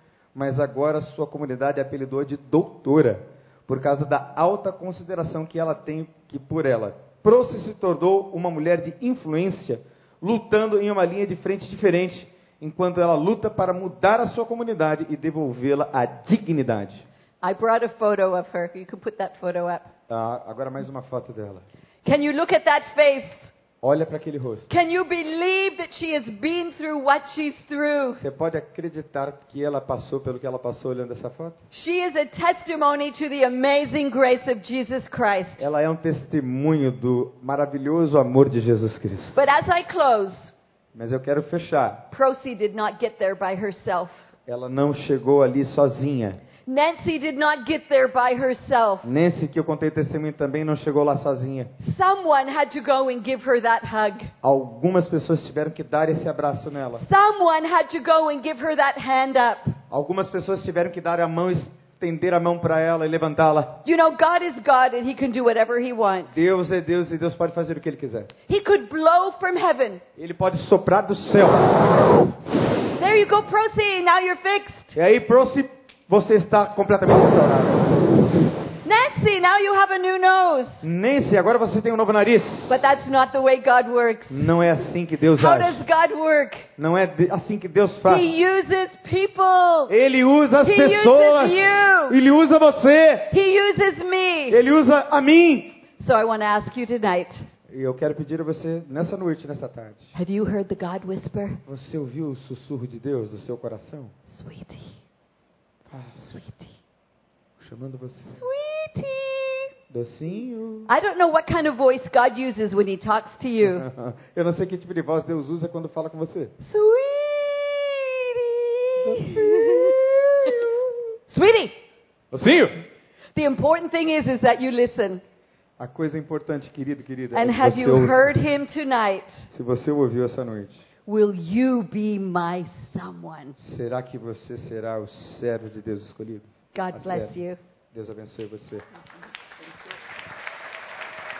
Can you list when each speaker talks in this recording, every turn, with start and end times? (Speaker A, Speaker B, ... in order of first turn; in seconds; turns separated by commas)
Speaker A: 0.3-17.0, Speaker B: 17.4-19.9, Speaker A: 20.1-21.6, Speaker B: 22.0-23.4, Speaker A: 23.8-24.7, Speaker B: 24.7-28.2, Speaker A: 28.2-31.6, Speaker B: 31.7-35.6, Speaker A: 35.6-39.4, Speaker B: 39.4-40.5, Speaker A: 40.9-42.0, Speaker B: 42.1-44.2, Speaker A: 44.5-46.4, Speaker B: 46.6-49.1, Speaker A: 49.0-51.7, Speaker B: 51.8-54.3, Speaker A: 54.4-57.0, Speaker B: 57.0-59.8, Speaker A: 59.9-63.8, Speaker B: 63.8-66.3, Speaker A: 66.3-68.3, Speaker B: 68.5-70.0, Speaker A: 70.2-71.8, Speaker B: 73.0-74.9, Speaker A: 74.9-78.0, Speaker B: 78.8-80.8, Speaker A: 80.8-82.9, Speaker B: 82.7-84.5, Speaker A: 84.3-85.8, Speaker B: 85.3-86.6, Speaker A: 86.8-88.3, Speaker B: 88.0-89.9, Speaker A: 89.9-93.3, Speaker B: 90.6-92.2, Speaker B: 93.3-94.6, Speaker A: 94.5-95.8, Speaker B: 96.0-97.3, Speaker A: 97.7-100.1, Speaker B: 100.1-101.6, Speaker A: 101.7-104.1, Speaker B: 104.3-105.0, Speaker A: 105.9-106.4, Speaker B: 106.4-106.7, Speaker A: 107.6-108.5, Speaker B: 108.4-109.7, Speaker A: 109.9-110.9, Speaker B: 110.9-113.8, Speaker A: 113.6-116.5, Speaker B: 116.6-121.7, Speaker A: 119.0-120.0, Speaker A: 122.3-122.7, Speaker B: 123.3-125.2, Speaker A: 125.8-128.3, Speaker B: 127.3-129.3, Speaker A: 129.5-130.8, Speaker B: 131.1-133.6, Speaker A: 133.6-137.3, Speaker B: 136.7-137.6, Speaker A: 137.9-138.8